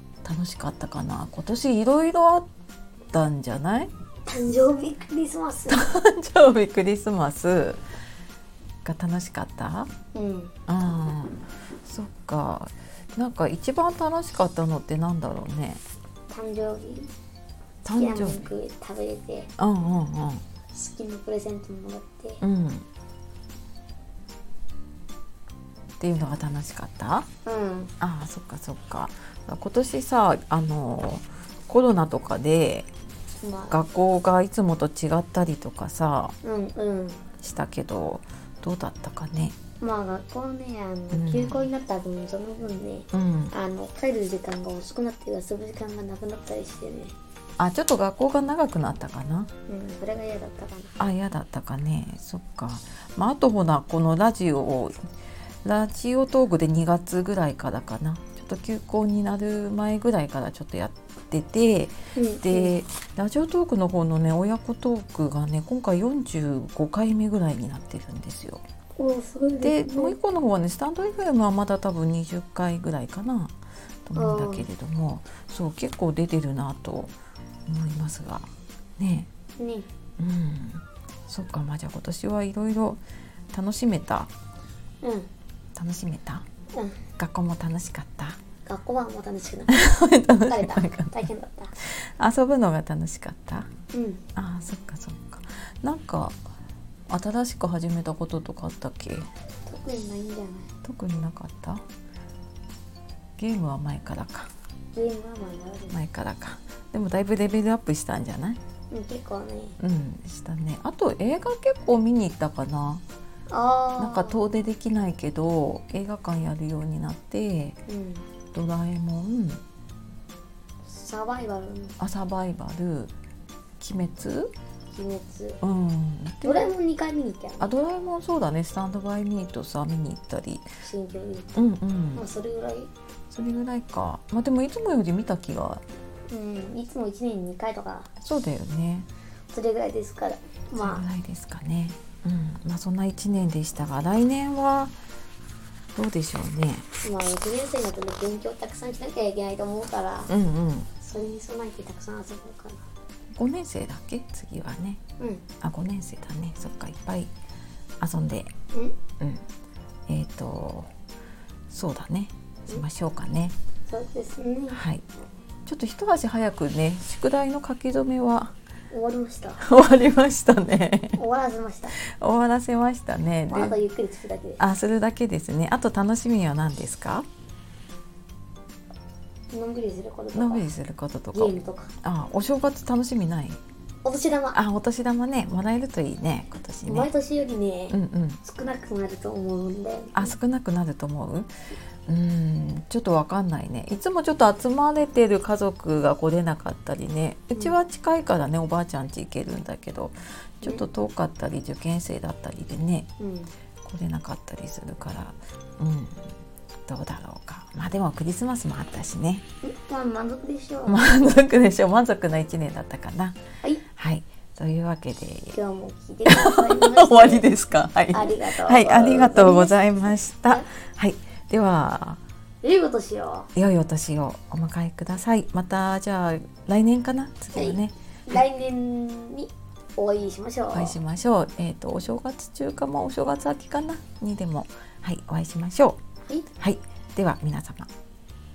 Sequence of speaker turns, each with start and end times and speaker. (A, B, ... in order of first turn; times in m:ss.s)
0:00.2-0:02.5 A
0:03.1-0:03.9 A
0:04.2-0:05.9 B
0:05.7-0:07.8 A
0:08.8-0:09.9 A
0:10.1-0:10.5 B
0:10.7-0:15.8 A
0:16.3-0:17.1 B
0:17.8-0:18.4 A
0:17.9-0:19.5 B
0:19.6-0:20.4 A
0:20.7-0:22.4 B
0:22.4-0:22.8 A
0:26.0-0:27.3 A
0:27.4-0:27.9 B
0:28.0-0:32.9 A
0:33.4-0:33.8 B
0:33.7-0:36.4 A
0:36.4-0:37.2 B
0:37.4-0:39.6 A
0:39.8-0:47.1 B
0:41.1-0:41.7 A
0:43.1-0:43.5 A
0:47.6-0:49.5 A
0:49.7-0:51.0 B
0:51.0-0:54.9 A
0:55.6-1:08.6 A
1:02.1-1:02.8 B
1:09.0-1:10.2 B
1:09.6-1:13.6 A
1:14.1-1:17.1 A
1:14.1-1:14.7 B
1:17.7-1:19.3 A
1:19.6-1:19.9 B
1:20.2-1:23.0 A
1:23.5-1:24.3 A
1:25.0-1:25.3 B
1:25.8-1:26.4 A
1:26.7-1:27.0 B
1:27.2-1:28.4 A
1:28.6-1:31.7 B
1:29.7-1:31.2 A
1:31.8-1:33.7 A
1:33.9-1:34.2 B
1:34.4-1:36.4 A
1:37.1-1:39.3 A
1:39.7-1:40.7 B
1:40.8-1:41.8 A
1:43.4-1:44.5 A
1:44.9-1:46.0 B
1:45.9-1:48.6 A
1:48.9-1:49.8 B
1:49.8-1:53.0 A
1:53.5-1:54.4 B
1:54.0-1:57.8 A
1:57.9-1:58.3 B
1:58.5-1:59.6 A
2:00.8-2:02.0 B
2:02.0-2:03.1 A
2:03.8-2:04.5 A
2:04.9-2:05.6 B
2:05.6-2:06.7 A
2:06.4-2:08.1 B
2:07.6-2:10.6 A
2:10.8-2:11.6 B
2:11.6-2:12.2 A
2:12.1-2:12.9 B
2:13.3-2:15.8 A
2:16.3-2:18.1 B
2:18.2-2:19.1 A
2:19.5-2:21.0 B
2:20.8-2:24.9 A
2:25.9-2:26.9 A
2:27.0-2:30.3 B
2:30.3-2:30.9 A
2:31.0-2:32.8 B
2:33.3-2:35.0 A
2:35.2-2:35.4 B
2:35.6-2:37.3 A
2:38.0-2:38.5 A
2:39.2-2:39.4 A
2:40.1-2:40.9 A
2:41.7-2:43.5 A
2:43.9-2:44.8 B
2:44.7-2:45.0 A
2:45.6-2:48.5 A
2:48.9-2:49.6 B
2:49.6-2:51.2 A
2:51.2-2:52.0 B
2:52.0-2:53.7 A
2:53.5-2:54.6 B
2:54.6-2:57.3 A
2:59.5-3:00.7 B
3:00.3-3:03.6 A
3:01.3-3:01.9 B
3:04.0-3:04.6 B
3:04.5-3:07.1 A
3:06.8-3:10.3 B
3:07.9-3:08.4 A
3:10.1-3:11.5 A
3:12.1-3:23.1 A
3:23.2-3:23.5 B
3:23.8-3:26.3 A
3:26.9-3:29.4 A
3:29.6-3:31.3 B
3:30.8-3:33.4 A
3:34.0-3:35.6 A
3:35.5-3:37.5 B
3:36.3-3:42.2 A
3:38.1-3:39.8 B
3:42.6-3:43.5 B
3:43.6-3:48.4 A
3:47.5-3:51.0 B
3:50.7-3:56.0 A
3:56.6-3:57.9 A